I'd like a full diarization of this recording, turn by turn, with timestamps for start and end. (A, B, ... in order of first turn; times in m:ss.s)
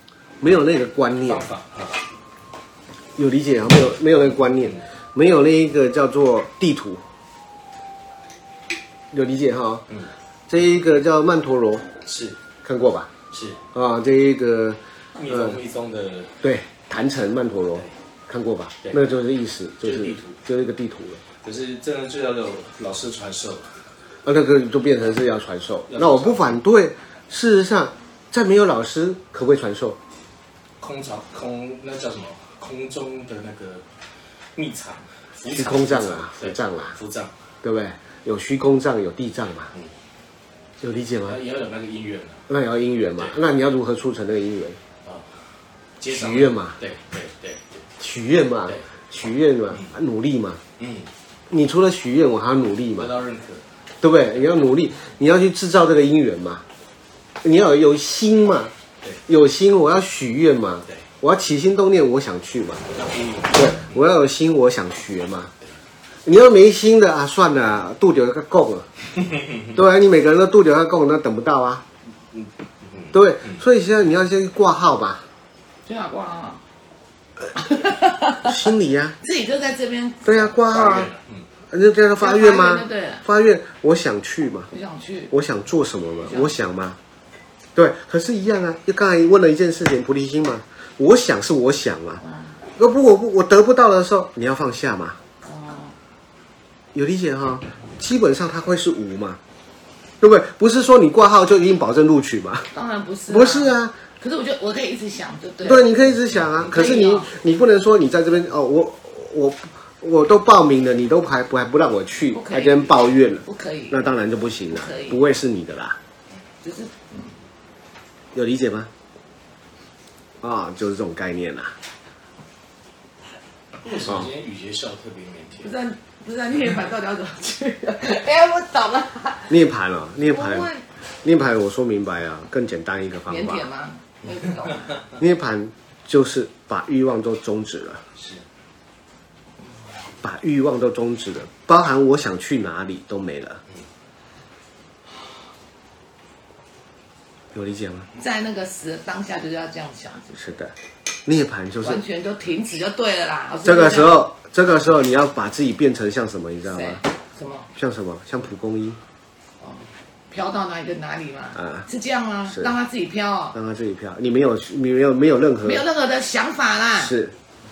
0:00.4-0:01.5 A
0:01.2-0:02.0 B
0:03.2-0:07.0 A
0:09.1-0:09.9 A
0:10.5-0:11.8 A
0:12.0-0:12.4 B
0:12.6-0:13.1 A
0:13.3-0:13.6 B
0:13.7-0:15.6 A
0:15.2-0:16.3 B
0:16.4-0:21.2 A
0:19.8-0:20.4 B
0:21.4-0:23.8 B
0:24.2-0:30.0 A
0:25.9-0:26.4 B
0:30.8-0:33.8 B
0:34.5-0:37.3 B
0:35.5-0:37.0 A
0:37.6-0:39.7 A
0:40.8-0:41.4 A
0:41.2-0:42.4 B
0:42.5-0:44.8 A
0:45.0-0:45.3 B
0:46.0-0:47.7 B
0:46.1-0:46.8 A
0:48.0-0:50.6 A
0:50.8-0:51.1 B
0:51.5-0:53.1 A
0:53.0-0:53.6 B
0:54.0-0:56.6 A
0:57.4-0:58.7 A
0:59.3-1:02.9 A
1:02.9-1:03.7 B
1:03.5-1:05.5 A
1:06.2-1:08.8 A
1:09.7-1:11.8 A
1:12.3-1:13.1 B
1:13.1-1:15.2 A
1:15.8-1:16.6 C
1:17.5-1:18.6 C
1:18.4-1:19.2 A
1:19.2-1:20.5 C
1:20.2-1:21.1 A
1:20.6-1:21.4 B
1:21.7-1:24.7 A
1:22.2-1:23.2 C
1:24.7-1:25.3 C
1:25.3-1:27.0 A
1:26.2-1:26.5 C
1:27.7-1:32.2 A
1:32.2-1:32.6 C
1:32.8-1:35.2 A
1:35.4-1:36.0 C
1:36.9-1:39.4 A
1:40.2-1:42.7 A
1:42.7-1:45.9 C
1:43.3-1:43.9 A
1:45.6-1:56.0 A
1:46.3-1:46.6 B
1:46.6-1:47.3 C
1:52.3-1:54.1 C
1:54.7-1:55.2 C
1:56.6-1:57.3 C
1:58.3-1:58.9 A
2:00.4-2:01.7 A
2:03.8-2:05.7 B
2:05.6-2:09.6 C
2:09.5-2:10.7 A
2:10.2-2:10.8 C
2:11.2-2:13.6 A
2:13.3-2:15.0 C
2:15.2-2:18.0 A
2:18.2-2:18.4 B
2:20.2-2:23.6 A
2:27.5-2:28.1 A
2:28.1-2:30.5 C
2:30.4-2:30.7 A
2:31.2-2:32.0 A
2:31.8-2:34.2 C
2:33.6-2:37.0 A
2:36.6-2:37.7 C
2:37.7-2:39.0 A
2:39.6-2:43.6 C
2:41.6-2:41.8 A
2:43.5-2:45.8 A
2:45.6-2:47.2 C
2:47.0-2:47.3 A